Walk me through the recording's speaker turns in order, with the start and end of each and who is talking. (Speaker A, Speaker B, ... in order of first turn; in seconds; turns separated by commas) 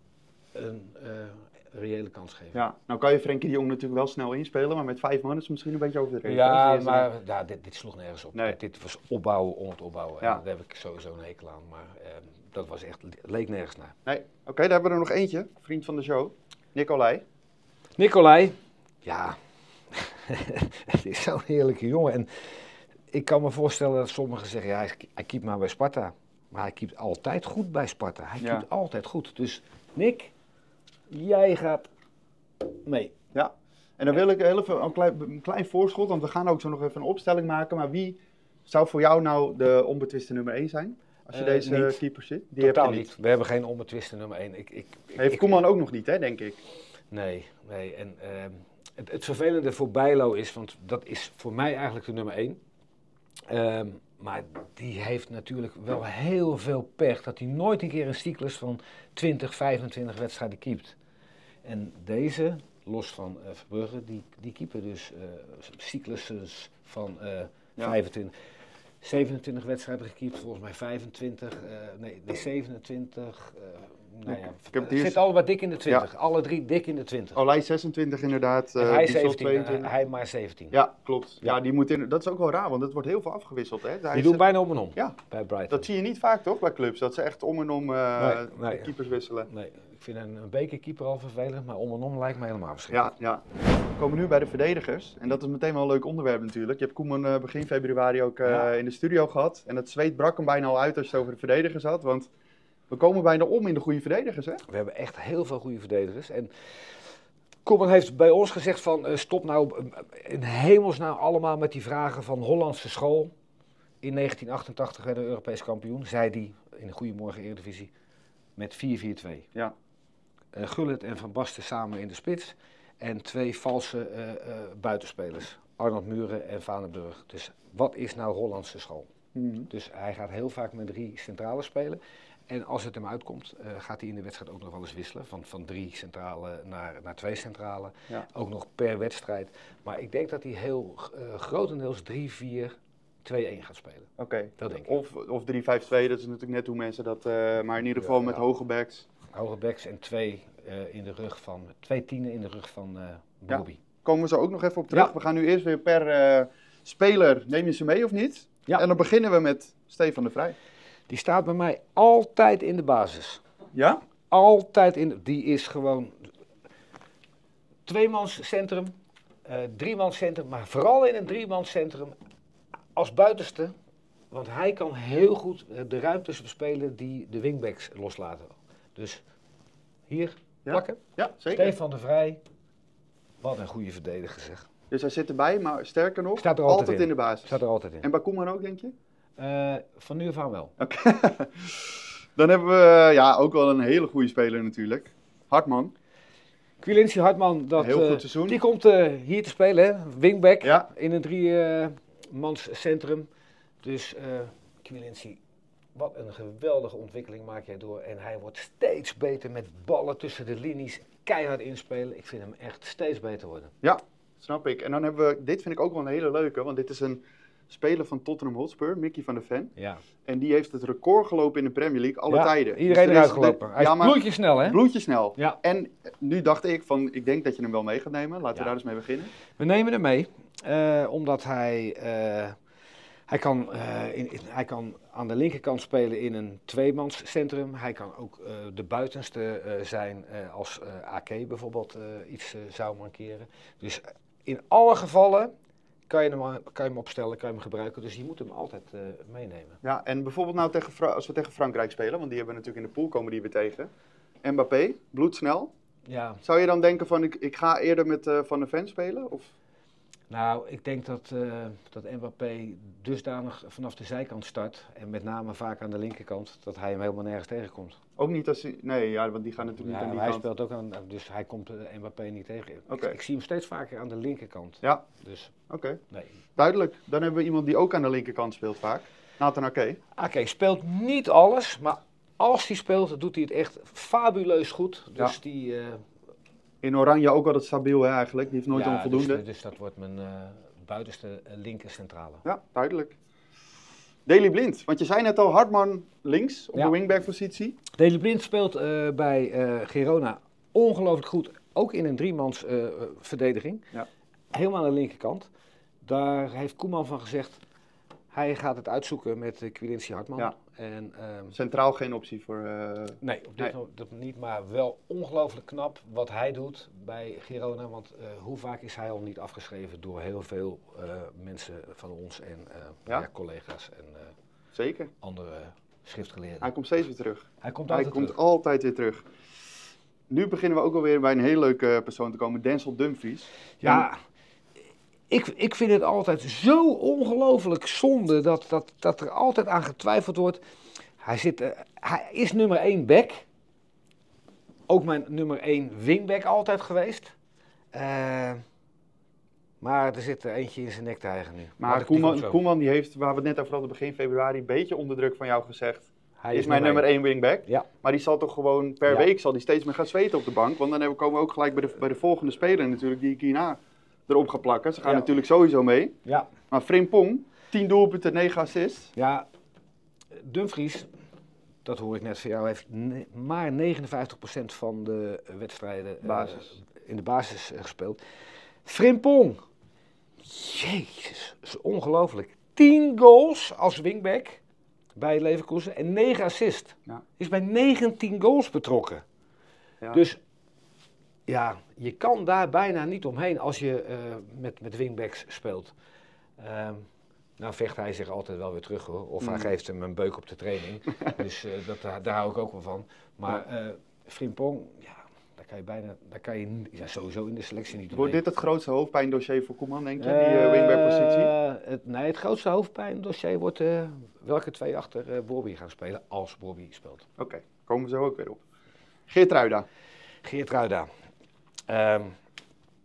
Speaker A: 0.5-2.6, Speaker B: 2.5-7.1, Speaker A: 6.2-13.9, Speaker B: 14.1-17.2, Speaker A: 18.0-19.4, Speaker A: 19.9-30.3, Speaker B: 28.4-28.7, Speaker A: 31.1-31.9, Speaker A: 32.8-33.1, Speaker B: 33.3-43.1, Speaker A: 41.3-42.0, Speaker A: 42.6-45.6, Speaker B: 45.2-46.6, Speaker A: 47.1-52.6, Speaker A: 53.5-61.0, Speaker A: 61.6-68.3, Speaker A: 69.0-77.4, Speaker B: 74.3-75.2, Speaker B: 77.3-79.9, Speaker A: 78.8-80.8, Speaker B: 80.7-84.4, Speaker A: 84.1-85.9, Speaker B: 85.7-89.5, Speaker A: 88.2-88.9, Speaker A: 89.5-93.1, Speaker B: 92.9-93.4, Speaker B: 94.0-102.3, Speaker A: 98.4-98.7, Speaker B: 102.9-104.6, Speaker A: 104.7-107.0, Speaker A: 107.6-113.3, Speaker A: 114.0-117.9, Speaker A: 118.6-119.5, Speaker A: 120.5-129.1, Speaker B: 129.3-129.7, Speaker A: 129.7-144.9, Speaker B: 144.2-149.1, Speaker A: 148.0-148.4, Speaker A: 149.3-153.8, Speaker B: 153.5-160.6, Speaker A: 161.1-163.4, Speaker B: 163.8-164.0, Speaker A: 164.3-166.3, Speaker A: 167.9-172.2, Speaker A: 172.9-173.7, Speaker A: 174.3-179.2, Speaker A: 180.1-181.0, Speaker B: 180.7-181.7, Speaker A: 181.5-182.4, Speaker A: 183.4-184.7, Speaker B: 184.9-188.9, Speaker A: 186.4-188.1, Speaker A: 189.4-190.7, Speaker B: 190.8-195.9, Speaker A: 196.8-203.3, Speaker B: 197.8-198.6, Speaker B: 200.6-200.9, Speaker A: 203.8-205.4, Speaker A: 205.9-213.7, Speaker B: 213.8-219.7, Speaker A: 219.8-220.0, Speaker B: 220.3-229.3, Speaker A: 222.3-224.8, Speaker A: 229.6-232.6, Speaker A: 233.3-245.5, Speaker A: 246.1-249.8, Speaker B: 249.8-253.9, Speaker B: 254.4-255.7, Speaker A: 256.1-256.4, Speaker B: 256.4-259.5, Speaker A: 260.3-268.0, Speaker B: 268.2-270.4, Speaker A: 269.8-275.5, Speaker B: 272.9-273.2, Speaker B: 275.7-276.0, Speaker B: 276.6-280.0, Speaker A: 280.1-286.1, Speaker B: 286.8-289.4, Speaker A: 288.7-292.4, Speaker B: 292.4-293.1, Speaker B: 294.3-297.8, Speaker A: 297.9-303.9, Speaker A: 304.5-305.5, Speaker A: 306.0-307.6, Speaker A: 308.3-311.6, Speaker B: 311.5-313.7, Speaker A: 313.2-324.3, Speaker B: 324.7-325.1, Speaker A: 325.2-326.7, Speaker B: 326.6-329.3, Speaker A: 327.6-328.4, Speaker B: 330.3-334.1, Speaker A: 333.8-334.2, Speaker A: 335.3-340.6, Speaker A: 341.2-343.5, Speaker A: 344.9-347.3, Speaker A: 347.9-348.6, Speaker A: 349.8-352.6, Speaker B: 351.8-366.2, Speaker A: 356.4-357.1, Speaker A: 365.0-365.3, Speaker A: 366.2-366.5, Speaker B: 366.7-369.1, Speaker A: 369.2-369.5, Speaker A: 370.3-371.1, Speaker A: 371.9-378.2, Speaker B: 376.2-376.7, Speaker A: 378.9-379.6, Speaker A: 380.4-384.6, Speaker A: 385.2-389.2, Speaker A: 390.1-390.4, Speaker A: 391.5-395.9, Speaker A: 396.6-397.1, Speaker A: 397.6-408.4, Speaker B: 399.4-399.7, Speaker B: 408.1-411.5, Speaker A: 410.2-417.3, Speaker B: 417.4-418.6, Speaker B: 419.3-419.9, Speaker A: 420.4-421.1, Speaker A: 421.9-422.4